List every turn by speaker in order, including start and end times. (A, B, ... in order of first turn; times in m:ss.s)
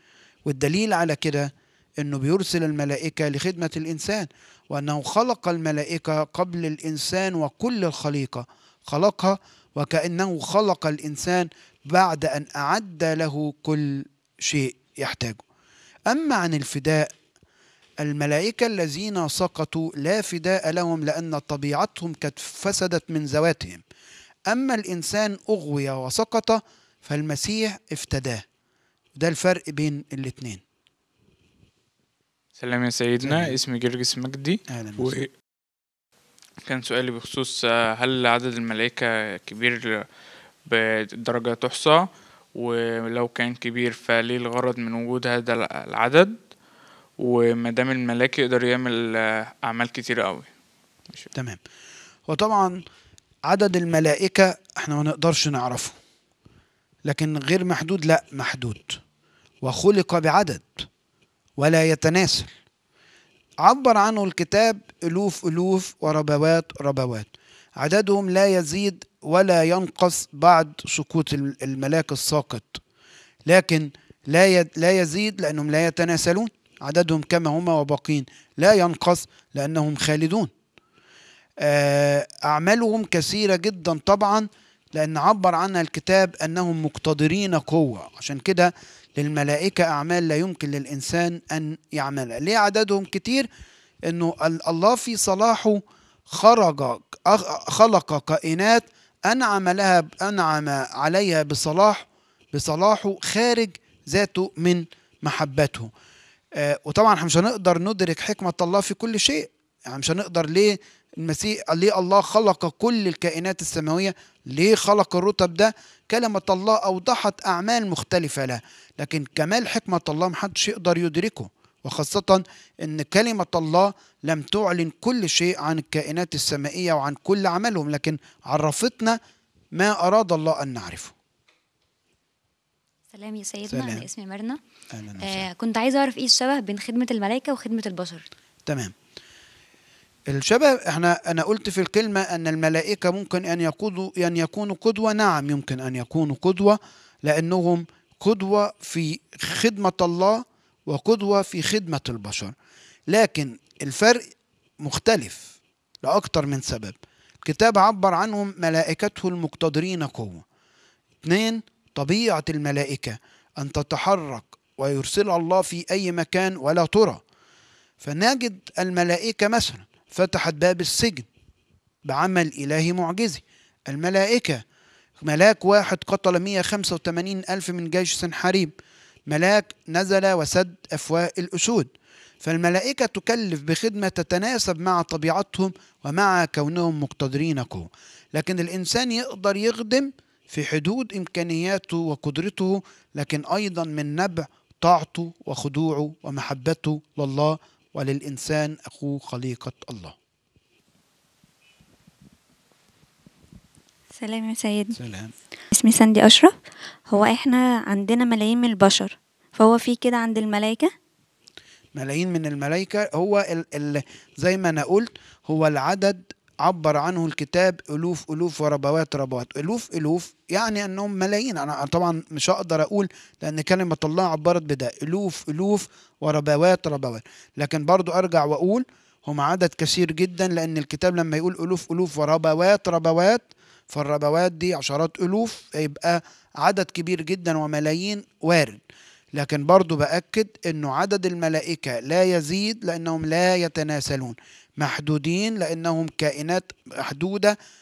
0:00.4-0:15.4 A
0:16.1-0:17.1 A
0:18.0-0:23.8 A
0:24.5-0:28.4 A
0:29.2-0:30.6 A
0:32.6-0:35.3 B
0:33.2-0:33.6 A
0:34.7-0:35.2 A
0:36.6-0:40.1 B
0:40.7-0:46.4 B
0:47.2-0:50.5 B
0:51.3-0:51.6 A
0:52.3-0:52.8 A
0:53.5-0:56.0 A
0:57.1-0:59.0 A
0:59.6-1:00.9 A
1:01.6-1:02.5 A
1:03.6-1:12.8 A
1:13.5-1:20.5 A
1:21.6-1:33.5 A
1:34.1-1:45.9 A
1:46.6-2:09.2 A
2:09.8-2:11.1 A
2:13.1-2:14.6 C
2:13.7-2:14.0 A
2:14.9-2:15.4 A
2:15.2-2:18.2 C
2:18.7-2:18.9 A
2:20.3-2:32.5 A
2:33.1-2:34.2 A
2:34.8-2:35.5 A
2:36.0-2:40.4 A
2:41.2-2:47.2 A
2:48.0-2:51.3 A
2:52.1-2:54.6 A
2:55.2-2:58.7 A
2:59.3-3:01.9 A
3:02.4-3:20.2 A
3:24.2-3:25.0 D
3:25.0-3:25.3 A
3:25.7-3:26.6 D
3:27.1-3:30.9 D
3:32.0-3:58.8 A
3:59.3-4:07.6 A